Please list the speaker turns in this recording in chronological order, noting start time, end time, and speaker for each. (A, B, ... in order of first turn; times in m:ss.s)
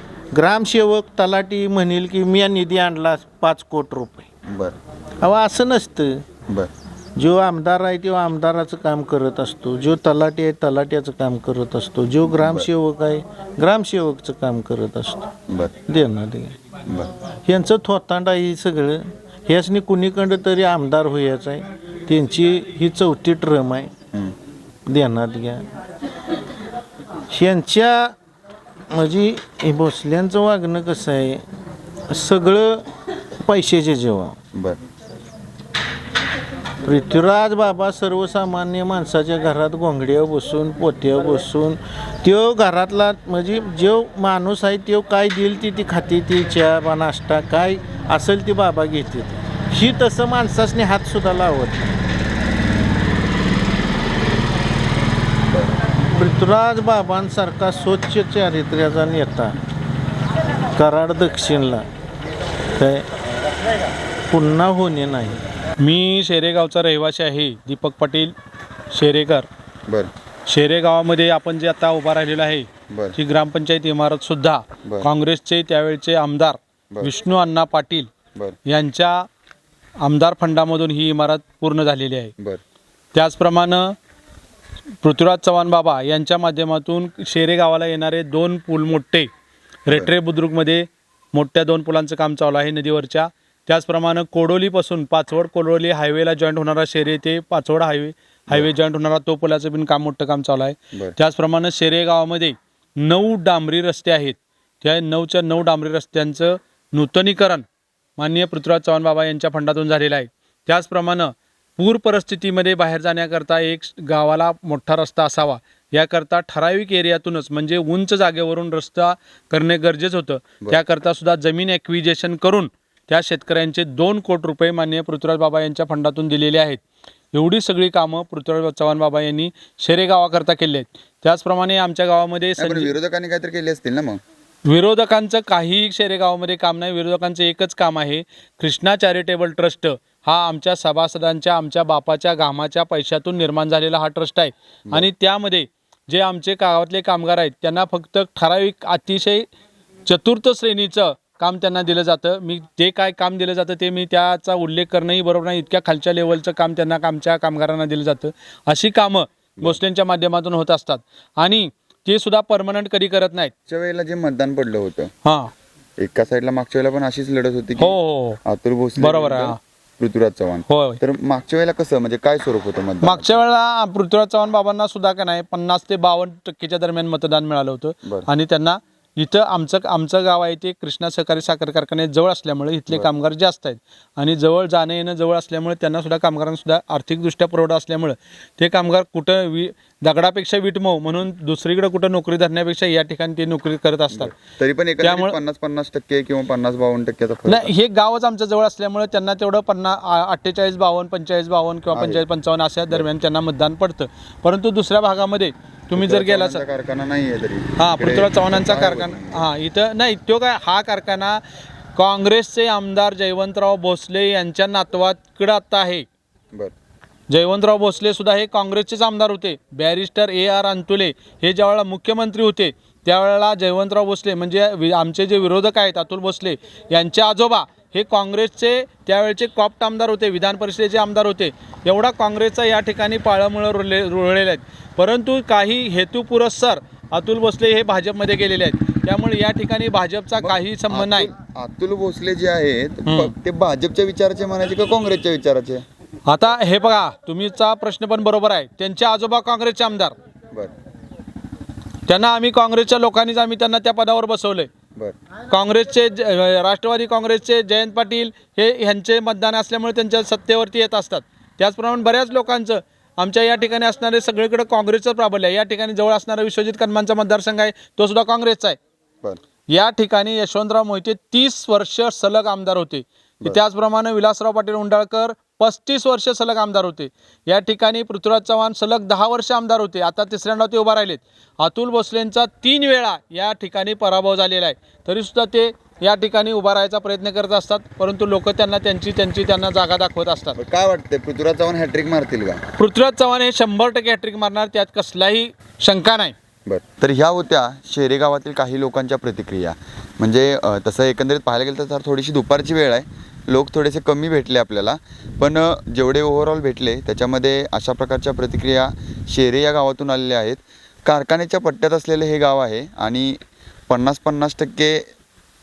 0:00.3-0:04.3 A
0:04.4-0:04.8 B
0:05.2-0:06.2 A
0:07.2-0:15.3 A
0:12.2-0:12.7 B
0:15.5-0:15.7 B
0:15.8-0:16.6 A
0:16.8-0:17.1 B
0:17.4-0:23.9 A
0:24.8-0:25.6 A
0:27.3-0:28.1 A
0:28.9-0:31.4 A
0:32.1-0:34.4 A
0:34.5-0:34.8 B
0:36.8-0:52.0 A
0:56.0-0:59.6 A
1:00.7-1:01.8 A
1:02.8-1:03.1 A
1:04.3-1:05.4 A
1:05.8-1:08.3 C
1:08.9-1:09.5 C
1:10.5-1:18.1 C
1:12.9-1:13.2 B
1:14.8-1:15.1 B
1:18.7-1:19.2 C
1:20.0-1:22.3 C
1:23.1-1:23.9 C
1:25.0-1:29.3 C
1:29.9-1:47.6 C
1:48.2-2:06.8 C
2:07.3-2:12.9 C
2:12.6-2:14.2 B
2:14.7-2:29.4 C
2:30.0-2:43.5 C
2:43.7-2:45.1 B
2:45.2-2:45.5 C
2:46.0-2:53.4 B
2:47.8-2:48.4 C
2:49.0-2:49.6 C
2:50.7-2:51.0 C
2:53.0-3:14.3 C
3:14.1-3:17.7 B
3:15.0-3:15.4 C
3:17.4-3:26.6 C
3:21.9-3:22.2 B
3:25.9-3:29.4 B
3:27.8-3:31.4 C
3:31.9-3:36.0 C
3:37.3-4:01.3 C
4:00.4-4:05.8 B
4:03.0-4:03.3 C
4:06.3-4:10.1 C
4:12.1-4:14.7 C
4:15.5-4:28.8 C
4:29.7-4:50.6 C
4:50.6-4:52.6 B
4:52.8-4:56.3 C
4:56.6-5:13.4 B
5:13.9-5:15.0 B